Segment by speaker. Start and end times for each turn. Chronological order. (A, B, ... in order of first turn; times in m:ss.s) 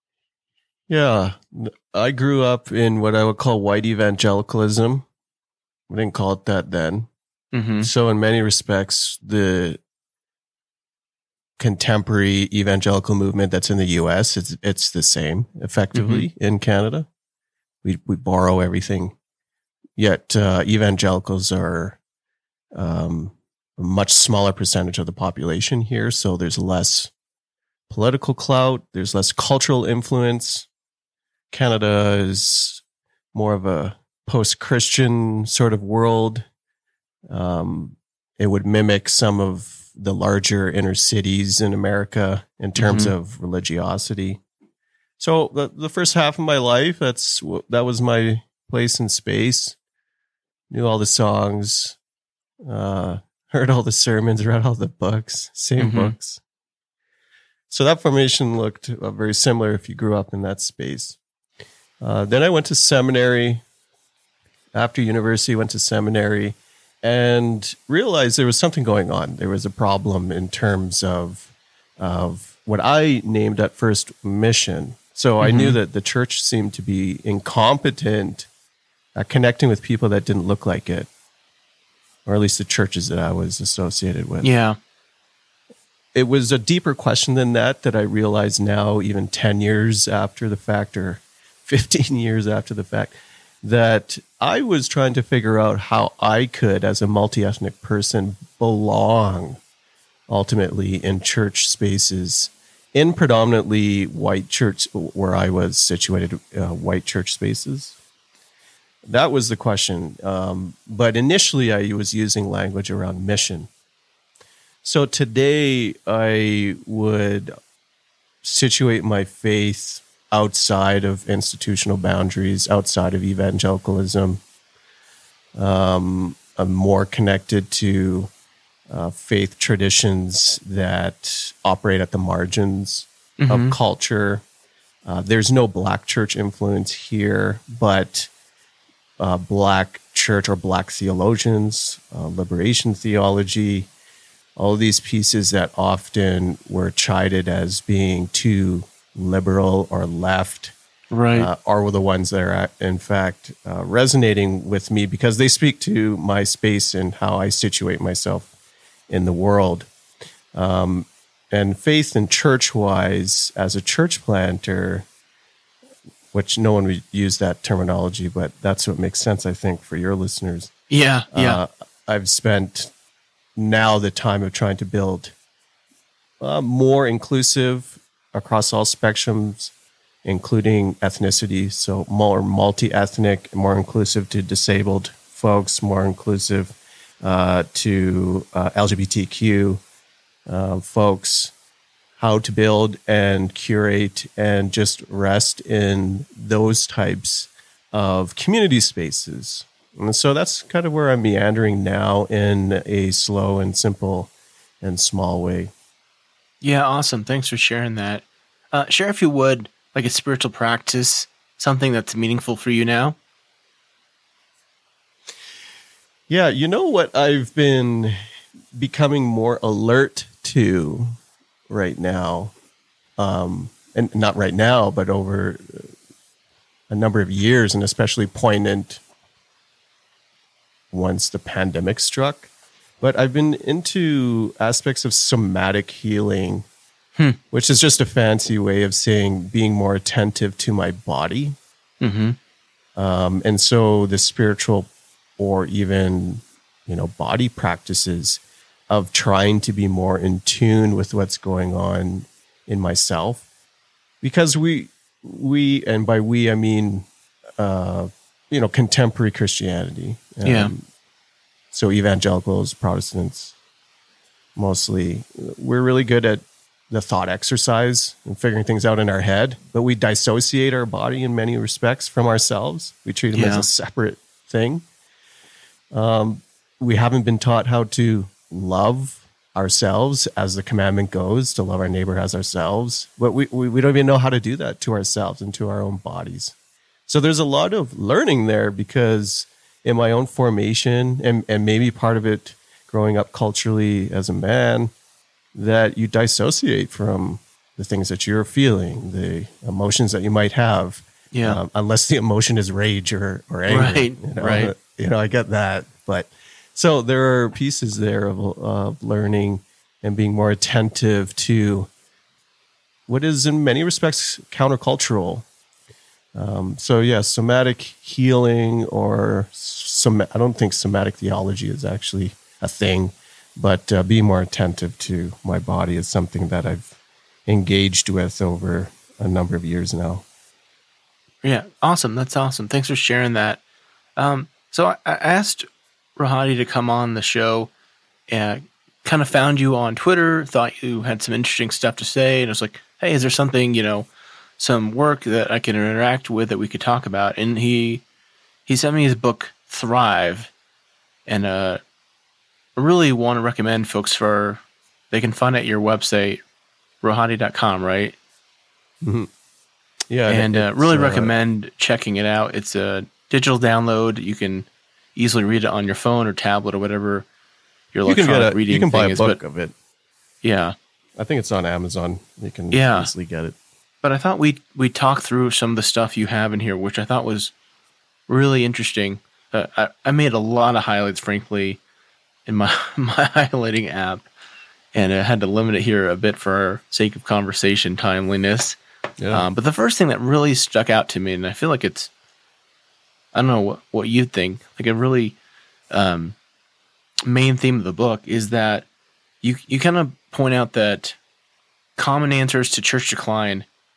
0:00.9-0:05.1 A
0:05.9-0:07.1 A
0:07.5-0:07.9 B
0:07.8-0:09.8 A
0:11.6-0:17.1 A
0:15.9-0:16.3 B
0:17.8-0:19.2 A
0:20.0-0:22.0 A
0:22.7-0:27.1 A
0:27.9-0:30.7 A
0:31.5-0:32.8 A
0:33.3-0:36.5 A
0:37.3-0:44.4 A
0:42.8-0:43.1 B
0:45.2-0:49.8 A
0:50.7-0:52.0 A
0:52.6-0:56.4 A
0:55.8-0:56.2 B
0:57.7-1:01.2 A
1:02.0-1:03.6 A
1:04.7-1:18.5 A
1:15.4-1:15.8 B
1:19.2-1:21.1 A
1:22.3-1:24.5 A
1:24.4-1:24.8 B
1:26.2-1:39.6 A
1:40.3-1:48.0 A
1:49.0-1:53.7 A
1:54.8-1:57.5 A
1:58.4-2:04.4 A
2:05.6-2:08.3 A
2:08.9-2:14.4 A
2:13.4-2:13.8 B
2:15.0-2:18.3 A
2:19.2-2:23.9 A
2:24.6-2:30.8 A
2:31.1-2:31.5 B
2:31.4-2:38.5 A
2:39.1-2:39.9 A
2:40.5-2:45.1 A
2:46.3-2:50.7 A
2:50.9-2:51.6 B
2:51.3-2:52.9 A
2:53.6-2:55.3 A
2:56.4-2:59.7 A
3:00.2-3:09.8 A
3:10.5-3:11.5 A
3:12.2-3:24.3 A
3:24.8-3:25.7 A
3:26.6-3:33.2 B
3:36.3-3:38.2 A
3:38.7-3:41.2 A
3:41.7-3:42.5 A
3:43.2-3:45.9 A
3:46.9-3:49.0 A
3:50.9-3:52.5 A
3:53.0-3:56.7 A
3:57.5-4:01.6 A
4:02.0-4:02.4 B
4:03.0-4:13.4 A
4:14.2-4:20.9 A
4:20.4-4:20.7 B
4:21.7-4:23.6 A
4:24.6-4:34.8 A
4:33.3-4:33.7 B
4:35.9-4:46.6 A
4:47.1-4:54.9 A
4:55.6-5:11.9 A
5:01.3-5:01.6 B
5:03.7-5:04.7 B
5:13.1-5:15.5 A
5:16.4-5:27.0 A
5:27.5-5:30.2 A
5:31.4-5:33.6 B
5:34.2-5:37.7 B
5:38.3-5:44.1 B
5:44.6-5:48.0 B
5:48.7-5:50.5 B
5:51.3-5:51.8 B
5:52.8-5:56.4 B
5:57.0-5:58.2 B
5:59.0-5:59.3 A
6:00.1-6:01.4 A
6:00.3-6:07.3 B
6:07.9-6:09.4 B
6:08.1-6:09.7 A
6:10.4-6:10.8 B
6:11.2-6:13.6 A
6:12.7-6:13.1 B
6:14.0-6:17.5 B
6:18.3-6:21.8 B
6:22.5-6:24.3 B
6:24.9-6:28.8 B
6:29.2-6:29.5 A
6:29.3-6:32.1 B
6:33.3-6:35.4 B
6:35.9-6:36.4 B
6:37.2-6:38.9 B
6:39.4-6:41.2 B
6:42.0-6:43.7 B